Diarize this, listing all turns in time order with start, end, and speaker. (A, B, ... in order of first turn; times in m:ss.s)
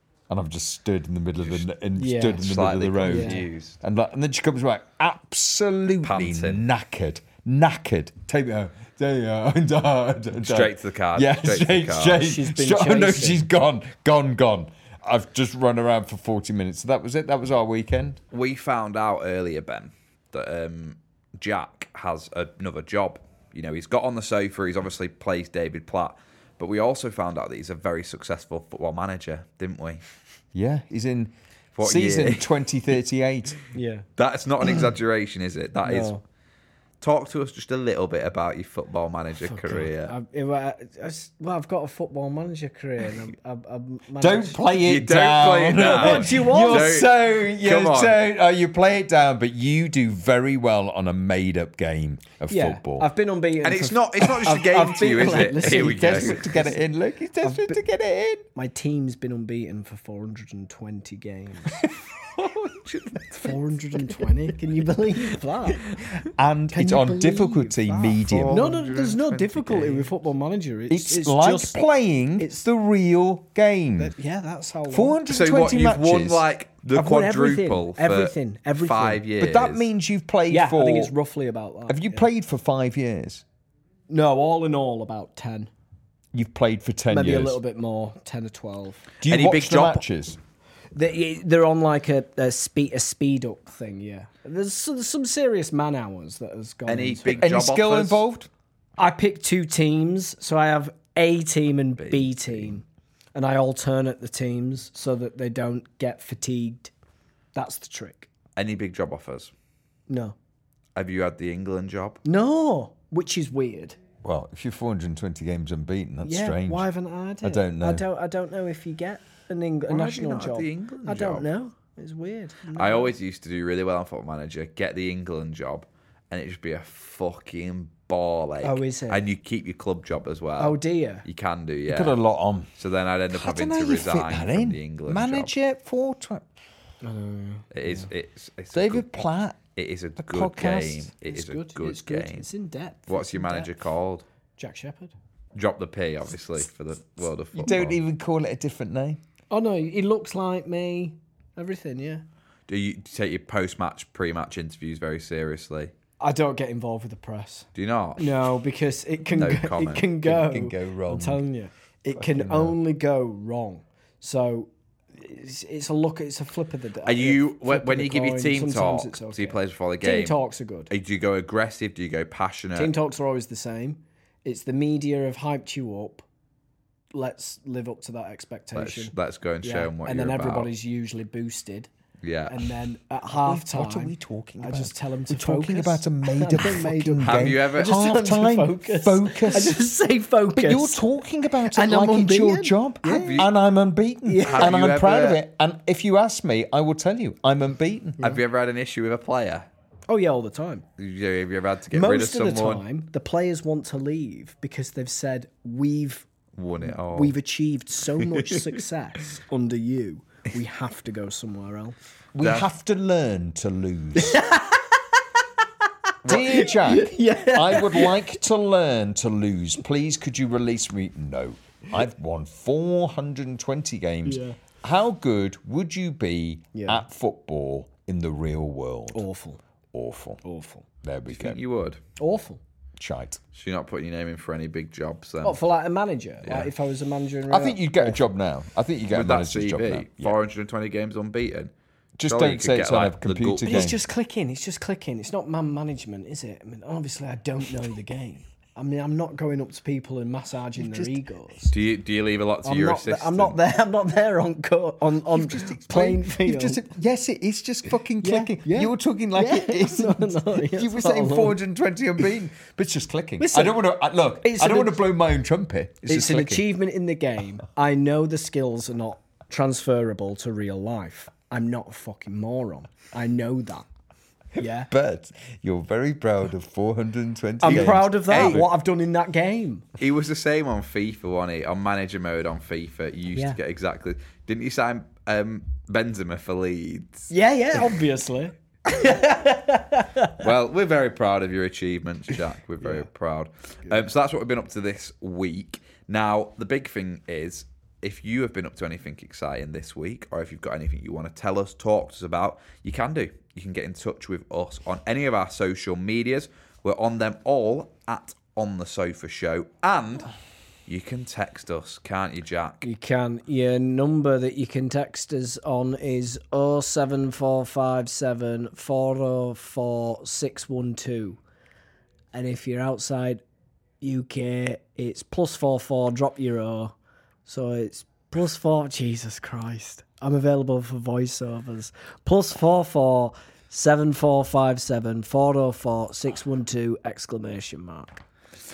0:00.3-0:18.2 A
0:02.0-0:02.4 B
0:02.4-0:03.8 C
0:03.0-0:03.4 B
0:06.0-0:06.6 C
0:10.4-0:12.2 C
0:12.2-0:13.4 B
0:18.3-0:30.0 C
0:30.5-0:33.6 A
0:31.8-0:32.5 C
0:33.7-0:34.0 B
0:34.2-0:36.2 C
0:35.8-0:36.2 B
0:37.0-0:40.1 C
0:39.4-0:44.6 B
0:44.2-0:53.1 A
0:44.8-0:48.2 C
0:45.9-0:47.0 B
0:52.5-0:56.7 B
0:53.6-0:56.5 C
0:55.5-0:58.4 A
0:57.4-0:57.8 B
0:58.5-1:01.9 B
1:02.9-1:03.5 C
1:03.3-1:05.8 B
1:06.3-1:08.7 A
1:06.7-1:11.8 B
1:08.1-1:10.1 C
1:10.9-1:14.1 A
1:12.4-1:12.6 B
1:14.0-1:15.2 B
1:14.9-1:16.4 A
1:15.3-1:19.8 C
1:16.9-1:19.2 B
1:19.4-1:21.1 A
1:20.5-1:22.2 B
1:21.9-1:23.4 A
1:24.1-1:25.7 B
1:26.3-1:27.6 A
1:27.1-1:29.0 B
1:29.2-1:30.4 A
1:29.2-1:30.0 C
1:30.9-1:37.4 B
1:36.9-1:38.2 C
1:37.4-1:38.5 A
1:39.0-1:42.8 B
1:42.0-1:42.7 C
1:43.3-1:46.9 B
1:47.5-1:48.3 B
1:48.6-1:49.5 C
1:50.1-1:50.3 B
1:51.0-1:52.2 C
1:52.2-1:54.0 B
1:54.2-1:56.9 A
1:56.2-2:03.1 B
1:57.4-1:58.0 A
1:59.9-2:01.5 C
2:02.7-2:12.2 C
2:08.6-2:09.2 B
2:10.6-2:11.2 B
2:11.9-2:12.7 A
2:12.8-2:15.5 C
2:13.3-2:16.4 A
2:17.0-2:18.0 B
2:17.7-2:19.0 C
2:18.7-2:19.6 A
2:19.8-2:22.5 C
2:20.2-2:21.1 A
2:21.2-2:23.7 B
2:23.1-2:24.2 C
2:24.6-2:25.1 B
2:25.5-2:28.0 C
2:27.5-2:29.2 A
2:29.5-2:32.2 B
2:32.7-2:35.9 C
2:36.2-2:37.7 B
2:37.7-2:38.6 C
2:38.2-2:50.9 B
2:39.3-2:40.1 C
2:40.2-2:41.4 A
2:42.1-2:42.8 A
2:47.0-2:50.4 C
2:50.9-2:52.9 C
2:52.7-2:56.2 B
2:57.1-3:01.9 B
2:58.7-3:00.7 C
3:02.2-3:02.6 C
3:02.5-3:11.0 B
3:03.4-3:09.8 A
3:07.2-3:08.0 C
3:10.5-3:18.3 A
3:11.7-3:13.4 B
3:13.0-3:13.5 C
3:14.2-3:14.8 B
3:14.4-3:15.4 C
3:18.2-3:19.7 C
3:20.1-3:20.8 B
3:21.0-3:22.8 C
3:21.9-3:26.2 B
3:26.6-3:27.4 C
3:26.8-3:32.0 B
3:28.4-3:28.8 C
3:32.3-3:34.4 A
3:32.4-3:32.7 C
3:34.2-3:34.8 B
3:36.2-3:49.2 A
3:36.3-3:38.2 B
3:44.2-3:44.6 B
3:46.7-3:47.0 B
3:49.1-3:49.6 B
3:49.9-3:50.4 A
3:50.4-3:50.8 B
3:51.0-3:51.6 A
3:51.3-3:52.0 C
3:52.2-3:52.6 B
3:53.0-3:53.4 A
3:53.5-3:55.6 C
3:55.4-3:58.2 B
3:57.5-4:00.4 A
3:59.1-4:01.7 C
4:02.2-4:04.0 A
4:02.2-4:03.9 C
4:03.6-4:11.7 B
4:10.8-4:11.2 A
4:11.7-4:13.6 C
4:12.6-4:16.9 B
4:15.3-4:26.6 A
4:18.2-4:21.6 B
4:23.4-4:23.9 B
4:24.4-4:25.0 B
4:26.0-4:33.8 B
4:34.6-4:34.9 B
4:34.9-4:38.7 A
4:37.6-4:39.8 B
4:37.7-4:38.7 C
4:40.0-4:47.3 C
4:47.3-4:50.4 B
4:50.4-5:10.3 C
5:10.9-5:12.8 C
5:12.8-5:21.4 B
5:22.3-5:23.4 B
5:24.0-5:26.9 B
5:27.4-5:38.2 B